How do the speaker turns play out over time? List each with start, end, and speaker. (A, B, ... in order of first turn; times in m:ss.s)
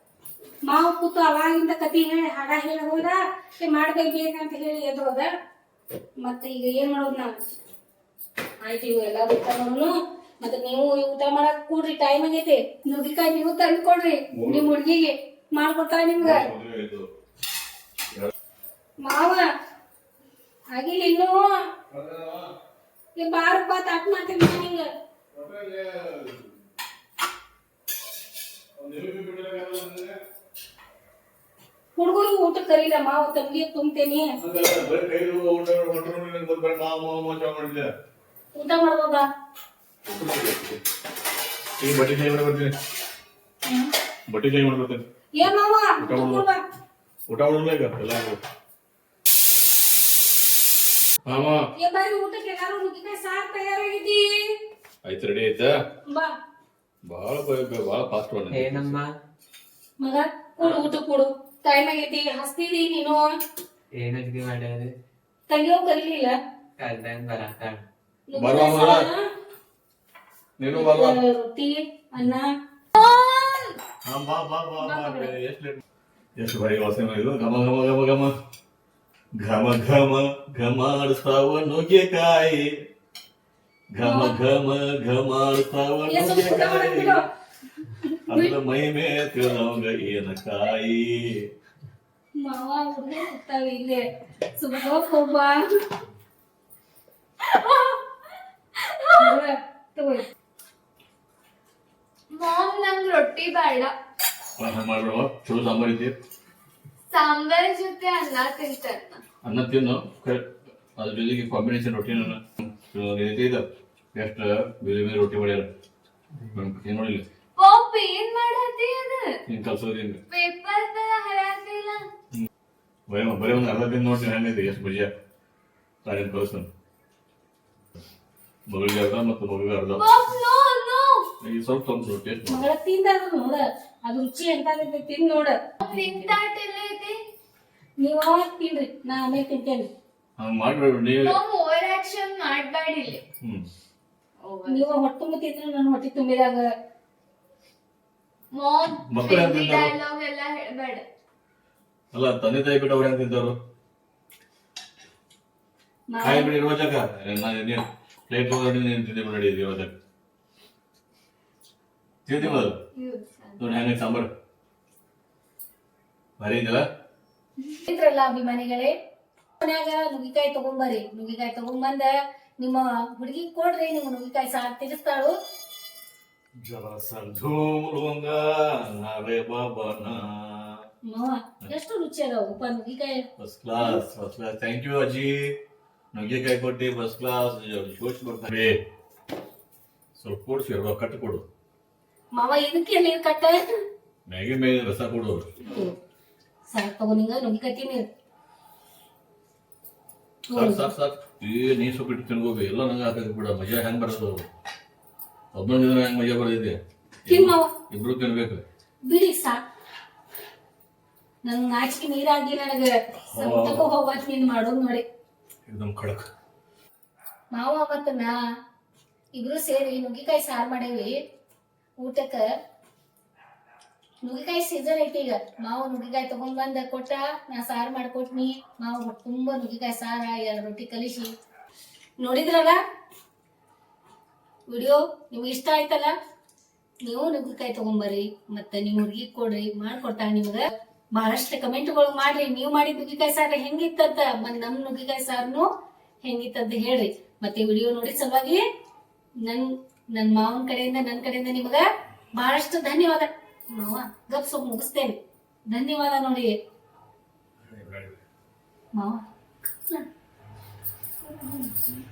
0:00.6-0:05.3 A
0:06.2-0:07.3 A
0:08.6-0:16.5 A
0:14.3-0:14.7 B
0:16.2-0:17.1 B
0:19.0-0:19.4 A
0:20.7-0:21.6 A
0:21.9-0:22.5 B
0:23.2-0:24.9 A
0:25.3-0:26.5 B
0:28.8-0:30.2 B
0:32.0-0:34.4 A
0:34.4-0:37.9 B
0:38.5-0:39.3 A
0:40.0-0:40.8 B
0:41.8-0:42.7 B
0:44.3-0:45.0 B
0:45.4-0:46.6 A
0:46.0-0:46.4 B
0:47.3-0:48.4 B
0:51.2-0:51.7 B
0:51.8-0:54.4 A
0:55.0-0:55.7 B
0:56.1-0:56.3 A
0:57.1-0:59.0 B
0:58.5-0:59.1 C
1:00.0-1:03.3 A
1:03.9-1:04.9 C
1:05.5-1:06.4 A
1:06.8-1:07.8 C
1:08.3-1:09.2 A
1:08.4-1:09.1 B
1:10.6-1:11.2 B
1:10.7-1:12.5 A
1:13.0-1:13.8 D
1:14.0-1:15.8 B
1:14.8-1:15.3 A
1:16.4-1:18.3 B
1:19.4-1:22.7 B
1:23.9-1:27.2 B
1:24.0-1:24.4 A
1:26.1-1:27.2 A
1:27.8-1:28.5 A
1:28.3-1:31.5 B
1:32.4-1:35.7 A
1:37.4-1:38.1 D
1:38.7-1:39.4 D
1:39.1-1:40.3 A
1:42.3-1:43.9 D
1:44.6-1:46.1 B
1:47.1-1:49.2 D
1:49.4-1:55.7 B
1:56.5-1:57.2 B
1:57.6-1:59.3 D
1:59.5-2:00.2 B
2:00.3-2:02.0 D
2:03.1-2:05.1 B
2:06.0-2:06.7 B
2:08.7-2:10.0 B
2:10.0-2:11.2 D
2:11.4-2:12.7 B
2:12.5-2:16.3 A
2:15.8-2:17.2 D
2:18.0-2:19.9 A
2:20.4-2:21.4 B
2:21.2-2:23.2 D
2:23.4-2:23.7 B
2:24.4-2:24.8 D
2:24.7-2:26.6 A
2:28.5-2:31.0 D
2:29.1-2:29.9 B
2:32.1-2:33.5 B
2:36.1-2:36.5 A
2:36.2-2:39.9 B
2:42.2-2:42.8 B
2:42.4-2:43.7 D
2:43.6-2:44.3 B
2:46.4-2:46.8 B
2:47.8-2:48.9 A
2:49.6-2:55.3 A
2:56.6-3:00.8 B
3:01.1-3:03.2 A
3:03.4-3:05.5 B
3:06.1-3:08.8 B
3:10.2-3:11.4 B
3:12.3-3:13.7 A
3:14.3-3:15.5 B
3:15.6-3:15.9 A
3:16.7-3:18.0 A
3:20.5-3:20.9 A
3:20.5-3:24.5 B
3:25.5-3:28.6 B
3:27.3-3:27.7 A
3:29.1-3:29.6 A
3:31.4-3:35.0 A
3:33.3-3:33.8 B
3:35.6-3:36.3 B
3:37.5-3:38.3 A
3:39.3-3:41.1 A
3:42.0-3:42.4 A
3:44.2-3:51.3 A
3:52.2-3:52.8 A
3:54.7-3:56.1 A
3:57.0-4:05.7 A
4:06.2-4:08.6 A
4:09.4-4:15.2 A
4:15.7-4:16.5 A
4:17.6-4:18.2 B
4:18.9-4:20.0 A
4:21.3-4:21.9 A